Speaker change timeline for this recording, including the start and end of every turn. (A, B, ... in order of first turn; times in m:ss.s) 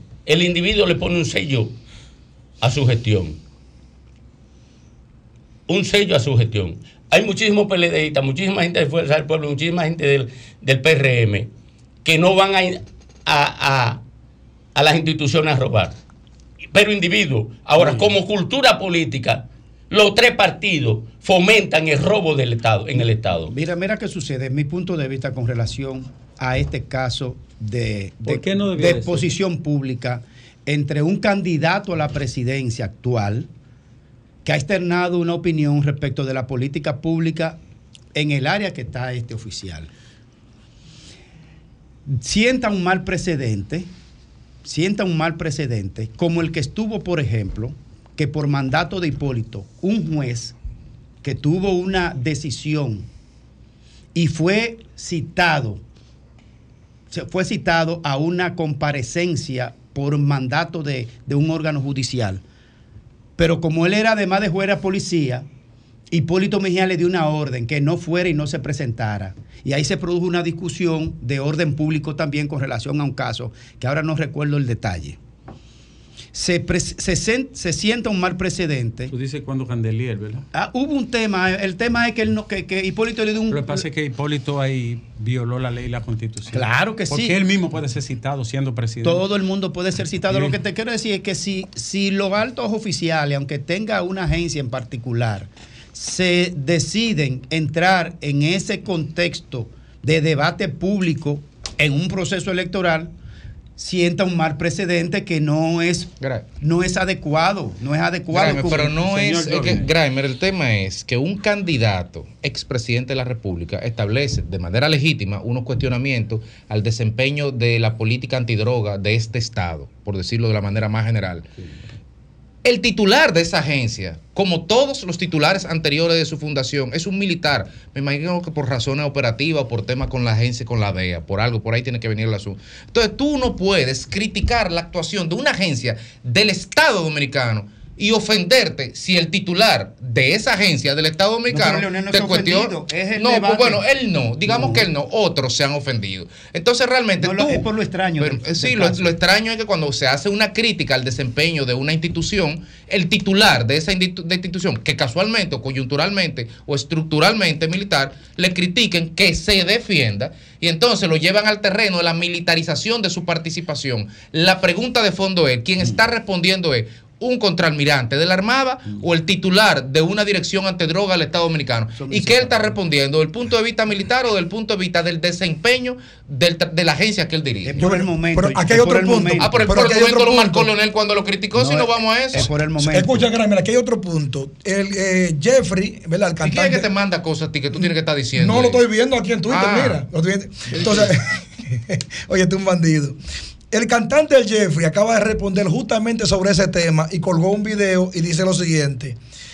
0:00.3-0:01.8 A
0:02.6-0:03.4 A
0:05.7-0:11.5 A
0:12.0-0:14.0 A
0:14.7-0:16.0 A
0:16.7-0:23.6 A
0:17.8-0:18.1 B
0:23.5-0:33.5 B
0:28.2-0:29.3 C
0:34.4-0:37.6 B
0:38.1-0:39.9 B
0:42.1-0:43.9 B
0:44.6-0:50.5 B
0:51.2-0:53.1 B
0:54.1-0:55.8 B
0:57.1-1:02.4 B
1:03.4-1:05.4 B
1:06.1-1:15.2 B
1:16.3-1:19.1 B
1:19.1-1:20.4 C
1:20.5-1:23.8 B
1:23.5-1:29.2 C
1:26.5-1:27.4 B
1:29.0-1:43.1 B
1:30.3-1:30.6 C
1:43.8-1:49.0 B
1:48.3-2:01.5 D
1:49.0-1:49.9 C
2:02.6-2:57.9 D
2:21.5-2:23.8 B
2:24.4-2:24.9 B
2:27.2-2:29.2 B
2:52.0-2:52.8 B
2:57.6-2:59.8 B
2:57.8-3:00.7 E
2:59.4-3:02.5 D
3:01.6-3:03.3 B
3:02.8-3:06.9 E
3:06.4-3:08.8 D
3:07.7-3:13.2 E
3:09.5-3:10.0 D
3:13.7-3:19.2 E